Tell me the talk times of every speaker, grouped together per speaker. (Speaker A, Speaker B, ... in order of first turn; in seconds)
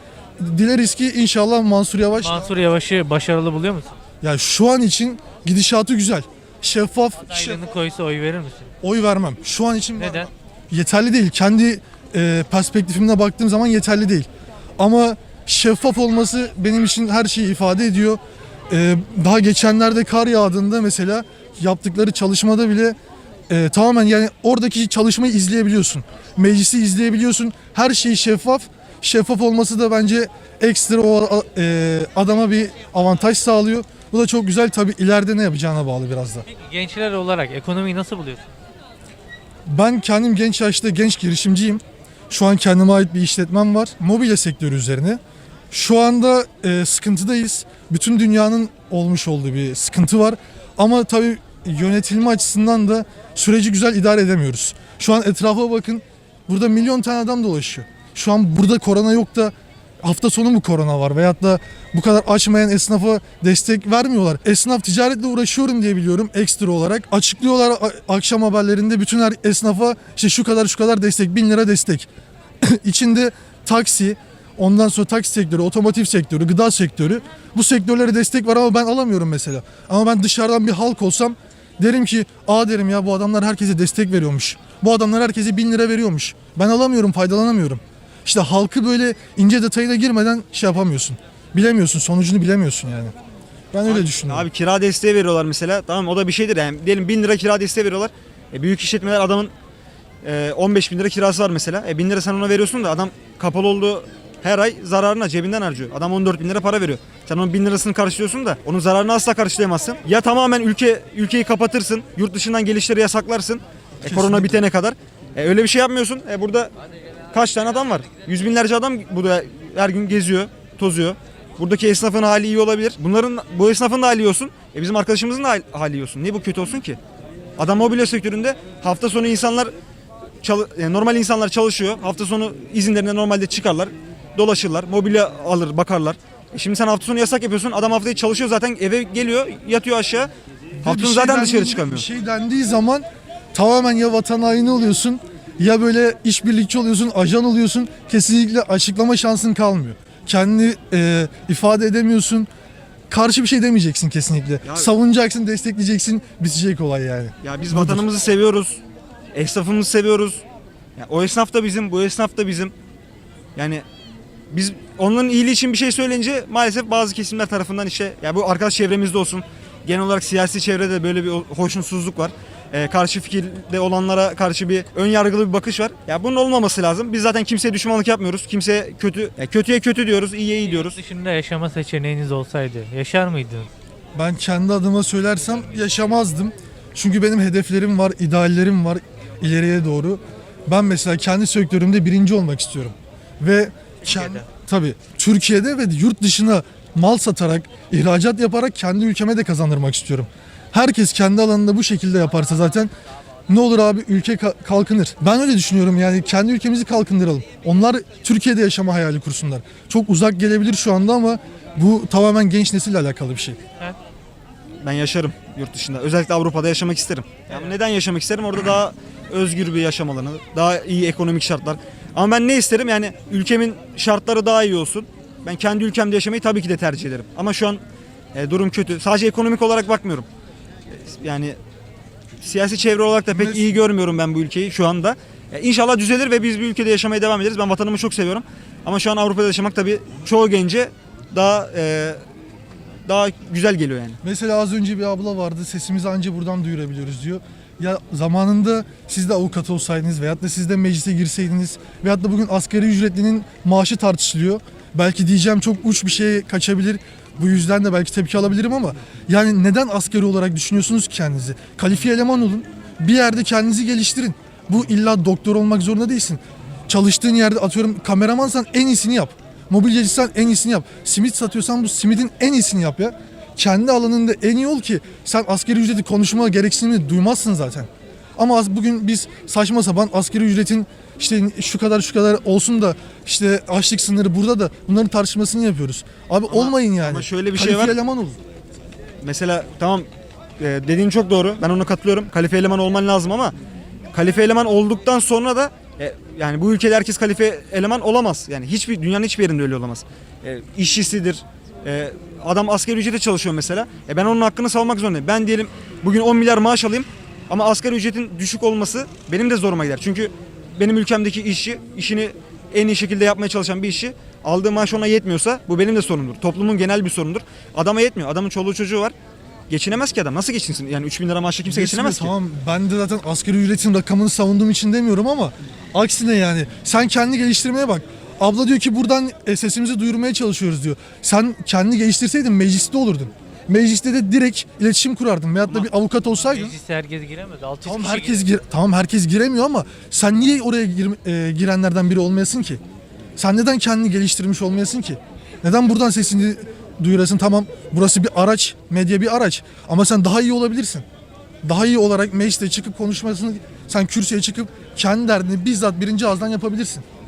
Speaker A: 0.4-2.5, 4.2-7.6, 8.8-22.9, 23.5-36.5, 39.6-45.2, 45.7-72.1, 72.6-93.1, 93.7-94.5, 114.0-114.6, 140.8-152.5, 153.1-158.0, 184.1-202.9, 203.5-213.6, 233.3-233.7, 244.2-288.4, 321.6-336.8, 337.8-342.8, 343.4-351.1, 351.6-357.0
Speaker B: 2.2-4.0, 7.3-8.7, 10.0-10.3, 36.5-38.5, 180.7-183.7, 336.4-338.4
Speaker C: 93.8-99.5, 100.2-116.7, 117.3-127.0, 127.6-129.7, 130.4-140.3, 140.8-142.1, 154.6-154.9, 157.4-158.8, 159.3-160.4, 161.0-162.7, 163.6-163.8, 164.5-181.0, 194.0-194.4, 214.8-227.8, 228.3-230.3, 230.9-231.6, 232.4-242.2, 243.1-244.2, 286.5-288.0, 289.2-290.1, 290.6-293.5, 294.1-319.1, 319.7-322.3